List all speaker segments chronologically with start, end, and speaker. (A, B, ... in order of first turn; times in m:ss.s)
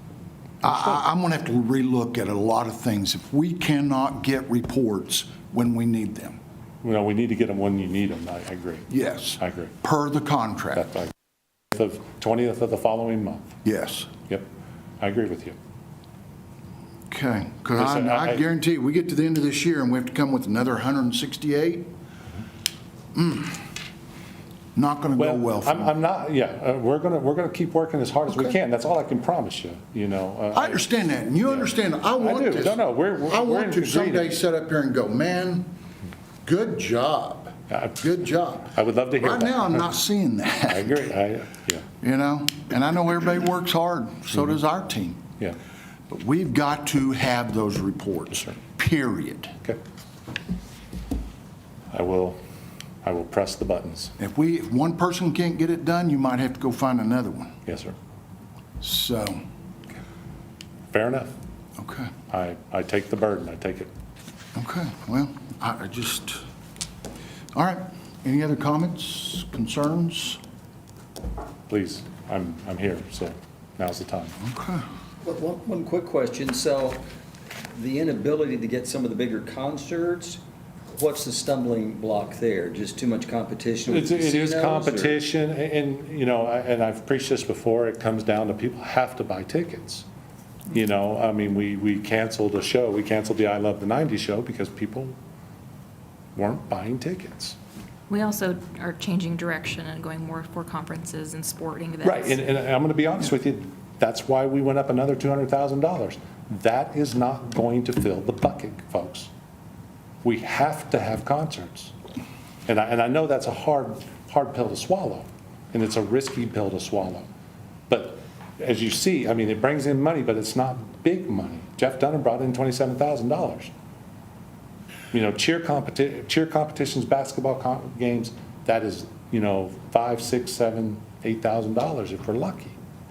0:00.6-0:06.4 A
0:06.8-0:09.7 B
0:08.9-0:10.9 A
0:10.8-0:11.1 B
0:11.7-0:13.6 B
0:13.6-0:14.1 A
0:15.0-0:15.6 B
0:17.1-0:21.9 A
0:17.8-0:18.4 B
0:23.1-0:23.6 A
0:24.8-0:25.9 A
0:25.2-0:30.9 B
0:28.3-0:28.6 A
0:30.5-0:35.7 A
0:31.4-0:34.3 B
0:36.4-0:41.2 A
0:37.7-0:38.0 B
0:38.7-0:40.0 B
0:40.7-0:41.8 B
0:42.0-0:45.2 A
0:46.1-0:49.6 A
0:51.9-0:52.4 B
0:53.0-0:54.1 B
0:54.2-0:57.5 A
0:57.6-0:58.0 B
0:58.8-0:59.4 A
1:00.9-1:01.3 B
1:01.8-1:02.1 A
1:02.3-1:03.9 B
1:04.5-1:06.4 A
1:07.5-1:10.4 A
1:11.7-1:14.4 B
1:14.4-1:14.8 A
1:15.2-1:17.0 C
1:17.7-1:20.4 C
1:20.9-1:25.2 C
1:23.9-1:30.0 B
1:30.7-1:35.1 B
1:36.3-1:37.6 B
1:38.1-1:42.4 D
1:42.0-1:49.3 B
1:50.2-1:51.9 B
1:52.7-1:57.3 B
1:57.9-2:03.7 B
2:05.1-2:12.8 B